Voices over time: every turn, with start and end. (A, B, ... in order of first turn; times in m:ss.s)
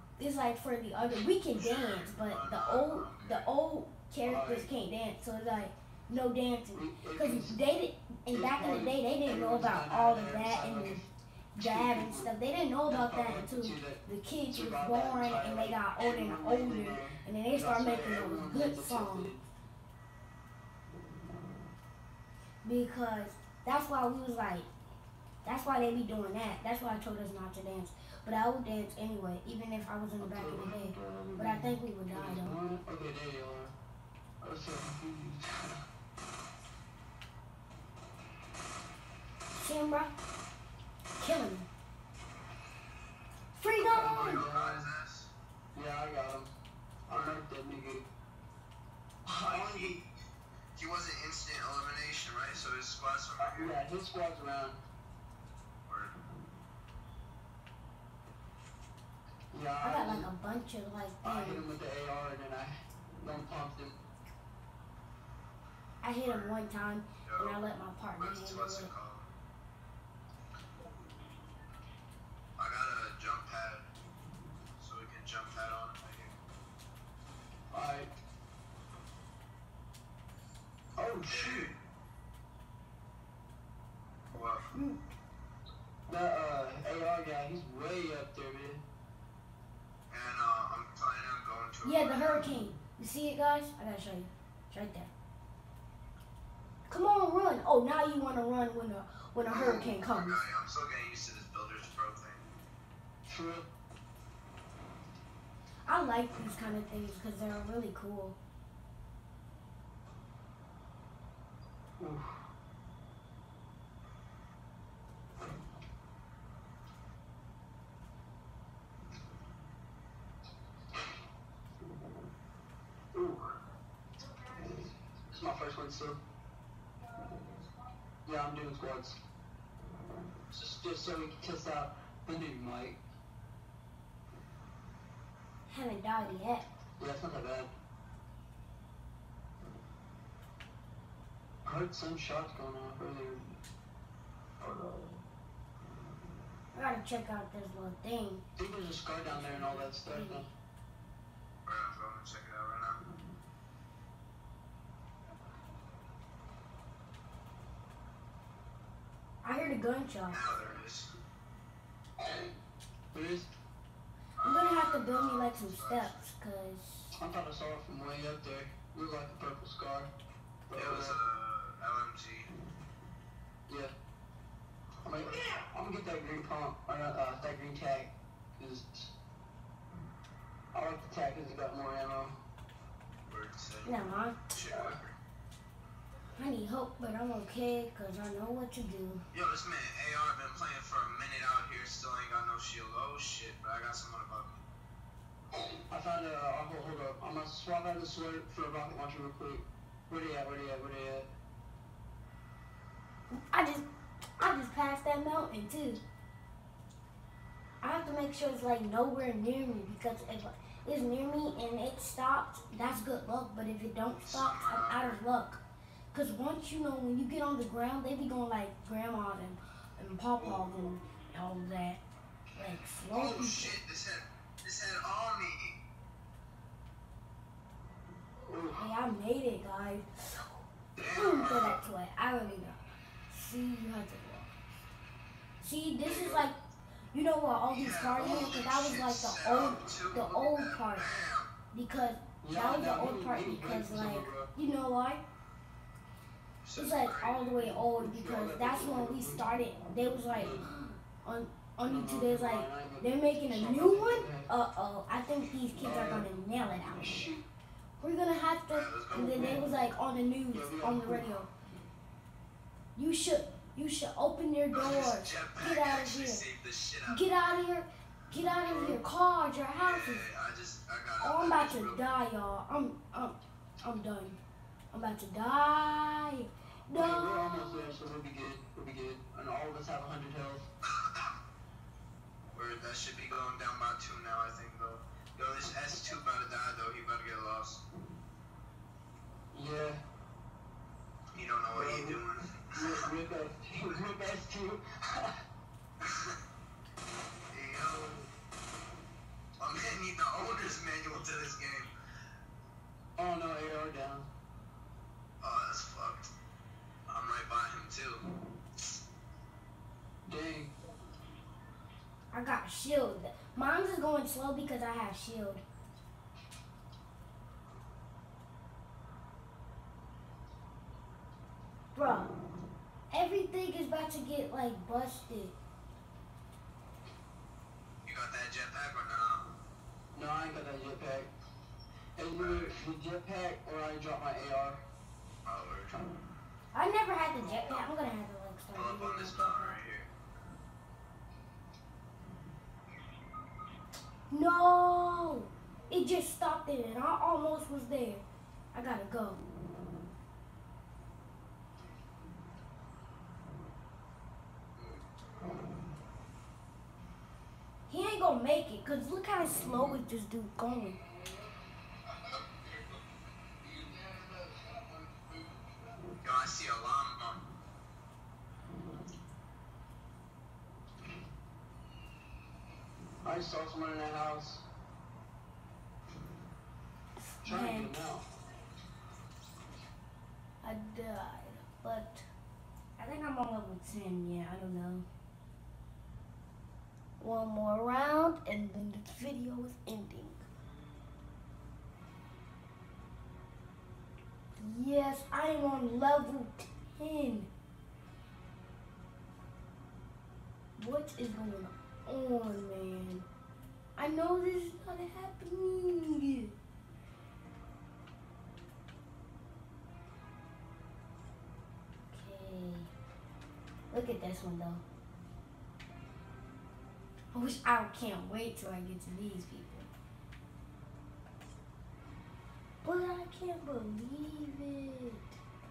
0:00.2-0:11.0 A
0:01.6-0:03.5 B
0:04.3-0:04.7 C
0:06.7-0:07.6 C
0:08.3-0:12.3 C
0:11.5-0:19.3 A
0:12.9-0:19.4 C
0:22.6-0:24.7 A
0:25.4-0:32.6 A
0:30.2-0:33.8 C
0:34.4-0:35.8 C
0:39.5-0:40.1 A
0:41.2-0:41.7 A
0:43.6-0:44.4 A
0:43.8-0:45.3 B
0:43.9-0:44.9 C
0:45.7-0:46.5 C
0:47.1-0:48.1 C
0:47.1-0:47.4 B
0:49.2-0:50.0 C
0:49.4-0:50.1 B
0:50.8-0:53.8 B
0:53.4-0:54.8 C
0:55.8-0:56.1 B
0:59.5-1:00.3 C
0:59.8-1:01.7 A
1:01.2-1:04.0 C
1:06.0-1:08.9 A
1:06.2-1:06.6 B
1:07.2-1:07.6 B
1:08.2-1:09.2 B
1:12.6-1:13.8 B
1:14.8-1:16.4 B
1:17.7-1:18.1 C
1:21.0-1:21.7 C
1:21.2-1:21.8 B
1:24.3-1:24.7 B
1:24.6-1:25.1 A
1:26.1-1:28.8 C
1:30.1-1:32.5 B
1:31.8-1:35.1 A
1:36.9-1:40.4 A
1:39.5-1:42.4 B
1:43.3-1:43.7 C
1:45.9-1:48.4 A
1:52.0-1:52.4 C
2:03.1-2:03.6 C
2:05.3-2:06.2 C
2:08.2-2:09.2 C
2:10.5-2:13.0 C
2:15.7-2:16.7 A
2:17.0-2:17.7 C
2:21.6-2:23.6 C
2:24.6-2:25.2 C
2:26.7-2:28.4 A
2:28.6-2:30.5 C
2:29.2-2:30.5 A
2:31.6-2:33.0 B
2:39.4-2:40.5 A
2:40.3-2:41.1 B
2:43.1-2:43.5 C
2:44.4-2:46.3 B
2:44.4-2:47.2 A
2:47.2-2:50.1 C
2:50.7-2:51.2 C
2:50.7-2:52.5 B
2:53.7-2:53.9 C
2:55.0-2:59.1 C
3:00.7-3:02.4 C
3:03.3-3:05.2 B
3:03.8-3:04.4 A
3:04.7-3:05.0 C
3:06.4-3:09.2 A
3:09.3-3:14.6 B
3:15.9-3:21.3 C
3:23.3-3:23.9 A
3:24.4-3:26.0 A
3:27.8-3:35.6 A
3:34.2-3:35.2 B
3:36.1-3:42.0 A
3:42.6-3:43.8 A
3:43.1-3:45.8 B
3:48.4-3:48.9 C
3:48.8-3:50.5 A
3:51.0-3:51.8 B
3:51.0-3:54.6 A
3:55.6-3:56.6 A
3:56.0-3:56.5 C
3:57.1-4:01.1 A
3:57.7-4:01.5 B
3:58.2-3:58.6 C
4:01.7-4:05.2 A
4:02.4-4:04.5 C
4:06.6-4:07.7 B
4:06.8-4:17.4 A
4:08.0-4:09.5 C
4:10.4-4:10.6 C
4:11.8-4:14.5 C
4:15.8-4:16.3 C
4:17.0-4:17.4 C
4:18.0-4:21.5 A
4:18.7-4:19.6 B
4:19.2-4:19.6 C
4:20.5-4:21.3 C
4:23.0-4:26.4 A
4:24.7-4:27.3 B
4:27.1-4:30.2 A
4:28.7-4:29.0 C
4:29.8-4:32.0 B
4:31.2-4:34.4 A
4:34.9-4:38.0 A
4:37.0-4:40.7 C
4:42.5-4:47.8 B
4:49.5-4:50.0 C
4:51.4-4:53.0 B
4:51.7-4:52.2 C
4:52.8-4:55.4 C
4:56.0-4:56.4 B
4:57.5-4:58.3 B
4:59.6-5:01.9 B
5:03.2-5:04.3 C
5:05.4-5:06.3 B
5:07.1-5:08.2 B
5:10.2-5:10.7 C
5:12.3-5:15.6 A
5:22.0-5:22.3 A
5:23.1-5:25.6 A
5:28.0-5:29.5 B
5:30.1-5:31.3 C
5:32.2-5:34.8 C
5:32.4-5:32.8 B
5:35.4-5:36.0 B
5:36.7-5:39.8 A
5:37.4-5:38.0 B
5:38.7-5:40.1 B
5:44.3-5:49.4 A
5:57.9-6:01.0 A
6:01.2-6:01.5 B
6:02.1-6:02.9 B
6:03.8-6:05.5 B
6:06.2-6:07.4 B
6:13.2-6:14.6 C
6:17.2-6:17.9 A
6:17.4-6:18.2 C
6:20.6-6:22.3 A
6:23.0-6:25.0 A
6:27.2-6:30.4 A
6:34.6-6:37.5 A
6:40.8-6:43.2 A
6:44.0-6:46.6 A
6:52.1-6:52.9 A
6:53.9-6:54.8 A
6:57.3-6:59.9 A
7:02.8-7:05.4 A